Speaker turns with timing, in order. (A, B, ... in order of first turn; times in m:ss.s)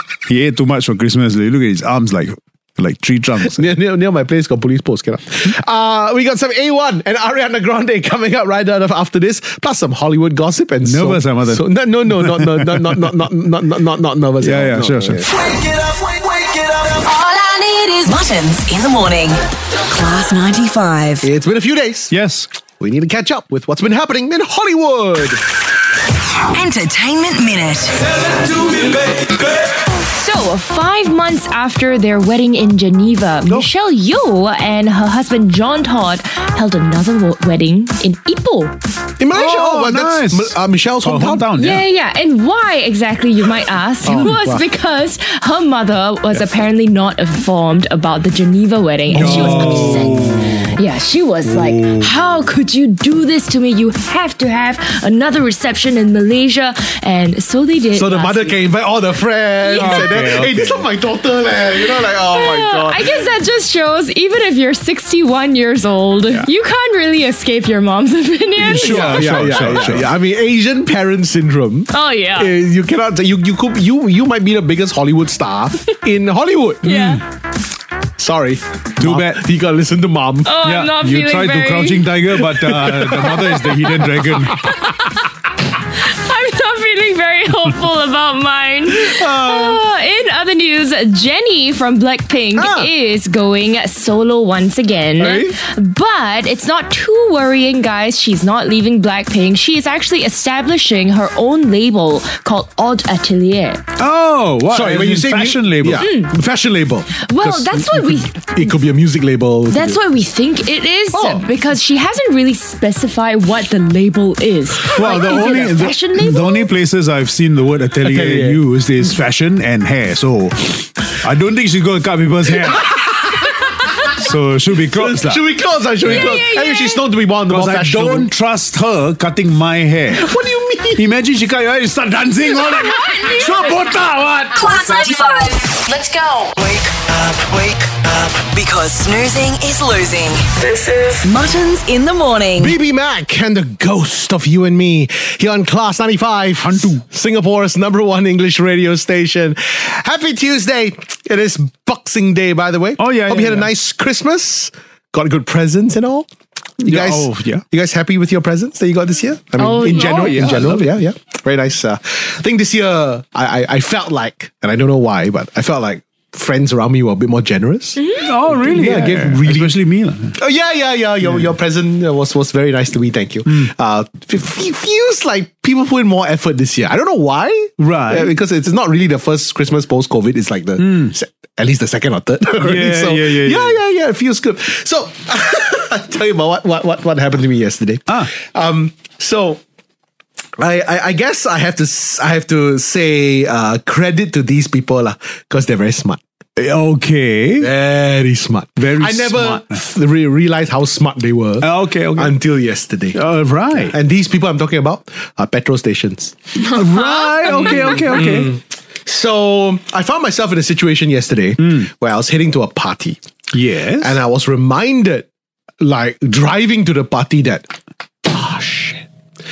0:00.3-0:03.6 A
0:03.5-0:15.3 B
0:10.8-0:13.2 A
0:14.4-0:15.2 A
0:15.4-0:21.3 C
0:21.2-0:22.1 B
0:22.1-0:22.5 A
0:22.8-0:25.4 B
0:26.5-0:28.0 C
0:30.0-0:38.7 D
0:39.2-0:41.5 B
0:39.3-0:41.8 A
0:41.6-0:58.6 D
0:44.0-0:44.6 B
0:49.1-0:50.8 A
0:49.1-0:49.9 B
0:51.4-0:52.1 A
0:57.9-1:03.2 B
0:59.6-1:00.0 D
0:59.7-1:00.9 A
1:02.3-1:09.6 D
1:08.6-1:10.1 A
1:08.6-1:17.2 B
1:11.9-1:12.5 D
1:16.8-1:17.2 D
1:18.2-1:20.6 B
1:19.0-1:19.5 A
1:20.4-1:22.1 D
1:20.6-1:24.6 A
1:22.4-1:24.6 B
1:25.9-1:43.8 D
1:29.1-1:29.8 A
1:32.6-1:32.9 B
1:35.2-1:35.6 A
1:44.0-1:46.1 A
1:44.7-1:50.0 B
1:46.0-1:46.3 D
1:47.2-1:48.7 D
1:49.7-1:56.7 D
1:51.1-1:51.4 B
1:54.8-2:02.9 A
1:58.0-1:58.6 B
2:02.8-2:03.1 B
2:04.1-2:05.4 A
2:04.9-2:08.3 B
2:06.0-2:06.5 A
2:06.0-2:07.0 D
2:07.5-2:10.4 A
2:10.1-2:11.0 B
2:10.9-2:14.7 A
2:12.7-2:13.8 D
2:14.5-2:22.7 C
2:22.6-2:36.3 B
2:26.6-2:27.0 A
2:33.0-2:33.7 A
2:36.8-2:49.8 B
2:36.8-2:37.6 A
2:39.6-2:41.0 A
2:48.0-2:48.3 D
2:48.2-2:50.4 A
2:50.4-3:09.6 B
2:51.2-2:51.5 A
2:53.4-2:53.7 A
2:57.8-2:58.3 A
3:00.8-3:01.1 A
3:02.6-3:03.8 A
3:10.6-3:16.2 B
3:16.6-3:17.7 A
3:17.6-3:23.2 B
3:18.8-3:19.8 A
3:21.6-3:22.4 A
3:23.1-3:23.9 A
3:23.7-3:26.6 B
3:26.6-3:28.6 A
3:26.7-3:27.8 D
3:27.4-3:33.2 B
3:31.6-3:31.9 A
3:33.5-3:34.2 A
3:34.0-3:35.3 B
3:35.8-3:37.7 B
3:38.2-3:39.0 B